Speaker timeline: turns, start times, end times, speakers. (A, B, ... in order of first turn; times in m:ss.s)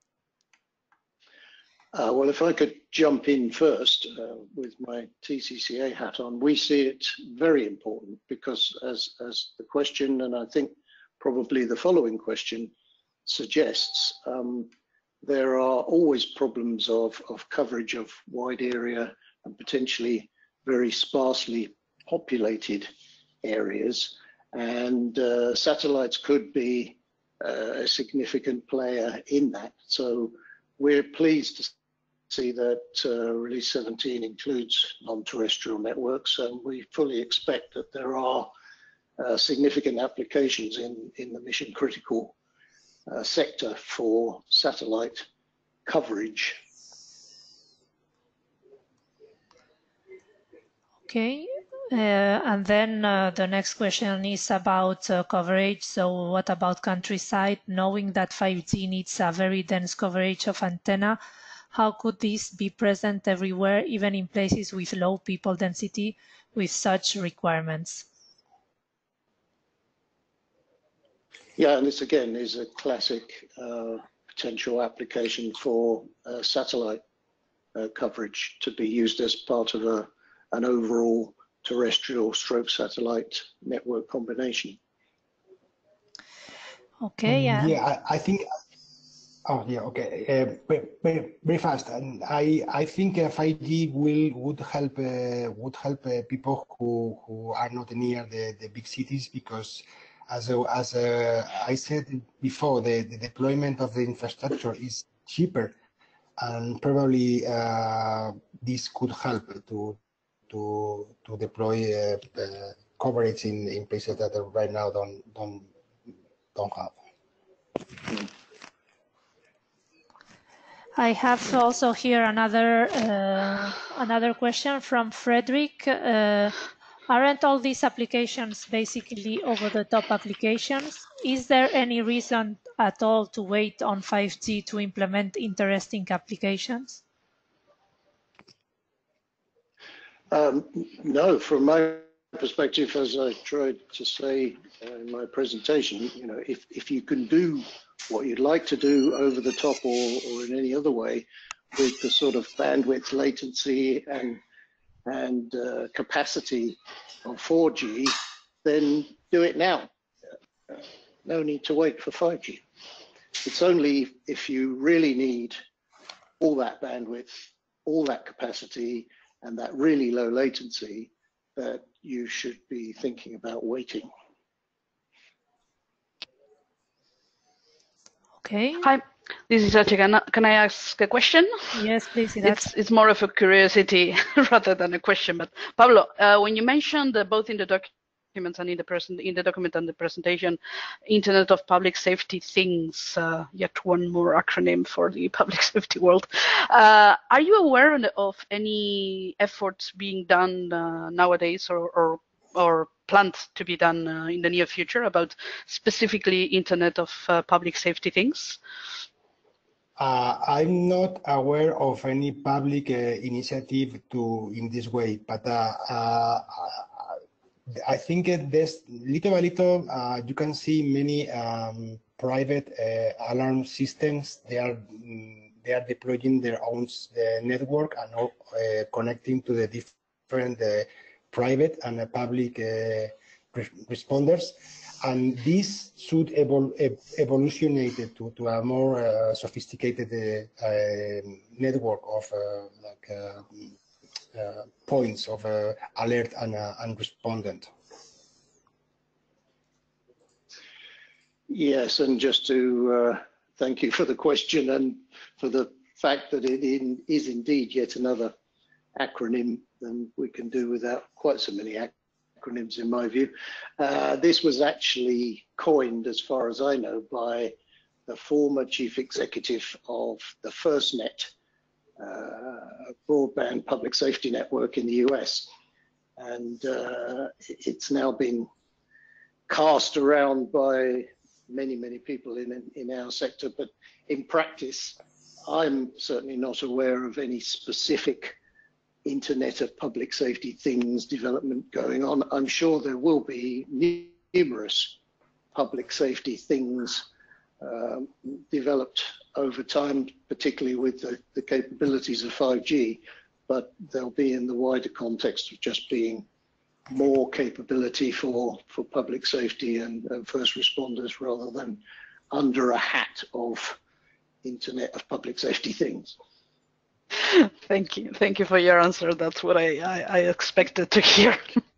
0:01.9-0:12.7 A
0:13.2-0:14.7 A
0:15.2-0:22.9 A
0:23.4-0:31.7 A
0:32.3-0:38.5 A
0:39.2-0:42.3 A
0:43.1-0:45.3 A
0:45.9-0:46.6 A
0:51.1-1:01.2 B
1:01.7-1:08.0 B
1:11.6-1:17.0 A
1:17.7-1:24.8 A
1:27.0-1:27.8 B
1:27.2-1:28.4 C
1:29.4-1:45.7 C
1:46.4-1:50.0 C
1:50.5-1:55.7 C
1:56.6-1:57.0 C
2:01.0-2:06.6 B
2:07.1-2:17.0 B
2:20.3-2:34.4 A
2:35.0-2:39.9 A
2:40.7-2:42.6 A
2:43.4-2:45.6 A
2:46.4-2:54.1 A
2:58.4-2:58.9 B
2:58.8-3:01.8 D
3:01.7-3:02.7 B
3:02.4-3:28.6 D
3:30.0-4:03.8 C
4:04.3-4:07.7 C
4:11.5-4:18.3 A
4:19.0-4:27.6 A
4:28.1-4:31.3 A
4:32.0-4:35.5 A
4:36.2-4:38.5 A
4:39.5-4:48.4 A
4:49.0-4:55.0 A
4:55.5-4:57.0 A
4:57.6-5:06.2 A
5:06.9-5:13.8 A
5:14.4-5:16.2 A
5:17.1-5:21.6 D